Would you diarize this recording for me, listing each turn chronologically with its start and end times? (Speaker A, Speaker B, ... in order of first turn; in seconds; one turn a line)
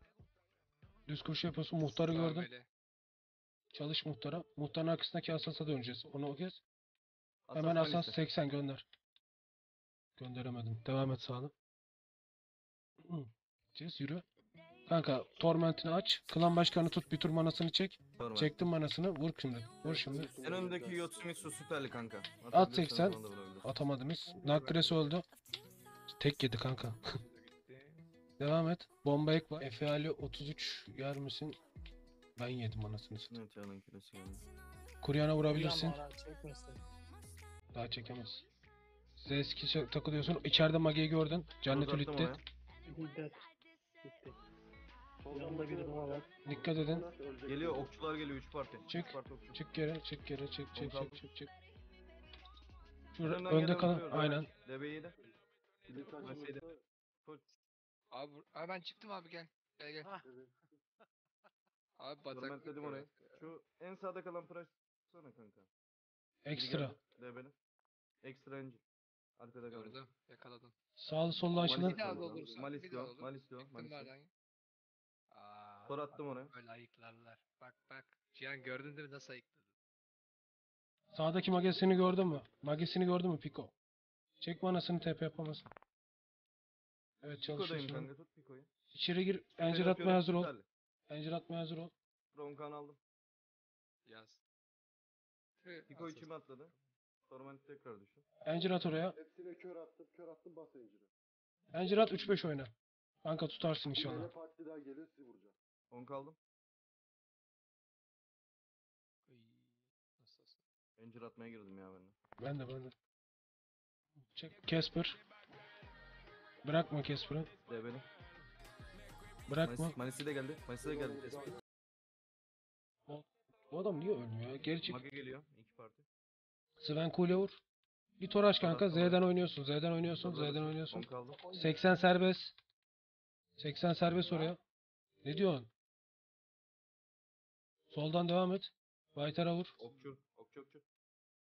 Speaker A: 1.1-2.5
Speaker B: 1.8-2.7
Speaker A: 3.7-6.6
Speaker C: 7.5-8.2
Speaker A: 7.5-8.8
Speaker A: 10.2-11.5
Speaker A: 13.0-14.2
Speaker A: 14.8-20.3
Speaker C: 18.2-18.5
Speaker D: 19.8-21.5
Speaker C: 20.4-23.7
Speaker A: 22.5-25.2
Speaker B: 24.3-24.9
Speaker A: 26.2-27.0
Speaker B: 27.2-28.1
Speaker A: 28.4-31.6
Speaker A: 32.4-33.3
Speaker C: 33.3-34.4
Speaker A: 35.0-36.0
Speaker E: 35.5-36.8
Speaker A: 37.7-38.4
Speaker A: 39.1-42.4
Speaker C: 41.7-42.4
Speaker E: 42.8-43.5
Speaker E: 44.0-44.4
Speaker D: 45.2-47.9
Speaker E: 45.3-46.3
Speaker A: 46.4-47.1
Speaker C: 47.5-49.6
Speaker A: 48.9-51.5
Speaker C: 50.7-51.2
Speaker A: 53.1-54.5
Speaker C: 53.2-55.1
Speaker C: 55.9-56.6
Speaker D: 55.9-56.8
Speaker B: 58.1-60.1
Speaker D: 60.2-60.7
Speaker B: 62.0-63.5
Speaker C: 62.3-65.7
Speaker A: 66.4-67.0
Speaker C: 66.5-67.5
Speaker C: 68.2-68.8
Speaker C: 69.4-70.0
Speaker B: 69.7-70.7
Speaker A: 71.0-72.0
Speaker C: 71.6-74.1
Speaker B: 71.6-74.3
Speaker D: 71.9-72.7
Speaker B: 75.3-79.7
Speaker C: 75.8-76.5
Speaker A: 81.1-83.7
Speaker A: 84.4-85.7
Speaker A: 87.2-88.1
Speaker C: 87.5-88.7
Speaker A: 88.9-90.5
Speaker C: 89.6-90.7
Speaker A: 91.1-91.9
Speaker C: 92.3-93.0
Speaker B: 94.0-94.4
Speaker B: 95.6-96.8
Speaker C: 95.9-96.7
Speaker C: 97.3-98.2
Speaker A: 98.4-99.2
Speaker D: 99.1-101.1
Speaker A: 101.7-102.7
Speaker A: 103.2-104.3
Speaker D: 103.9-105.5
Speaker C: 105.9-106.4
Speaker B: 109.3-110.6
Speaker C: 111.0-112.2
Speaker A: 112.4-112.9
Speaker A: 114.3-115.2
Speaker A: 116.6-117.5
Speaker C: 117.7-118.0
Speaker A: 119.5-119.9
Speaker C: 119.6-121.5
Speaker D: 120.8-121.6
Speaker A: 123.1-125.0
Speaker C: 124.8-126.0
Speaker A: 126.8-127.6
Speaker A: 128.2-132.5
Speaker C: 128.6-129.2
Speaker C: 130.2-131.4
Speaker E: 131.3-131.8
Speaker A: 133.6-134.6
Speaker A: 135.2-135.7
Speaker A: 137.9-139.8
Speaker C: 139.8-140.8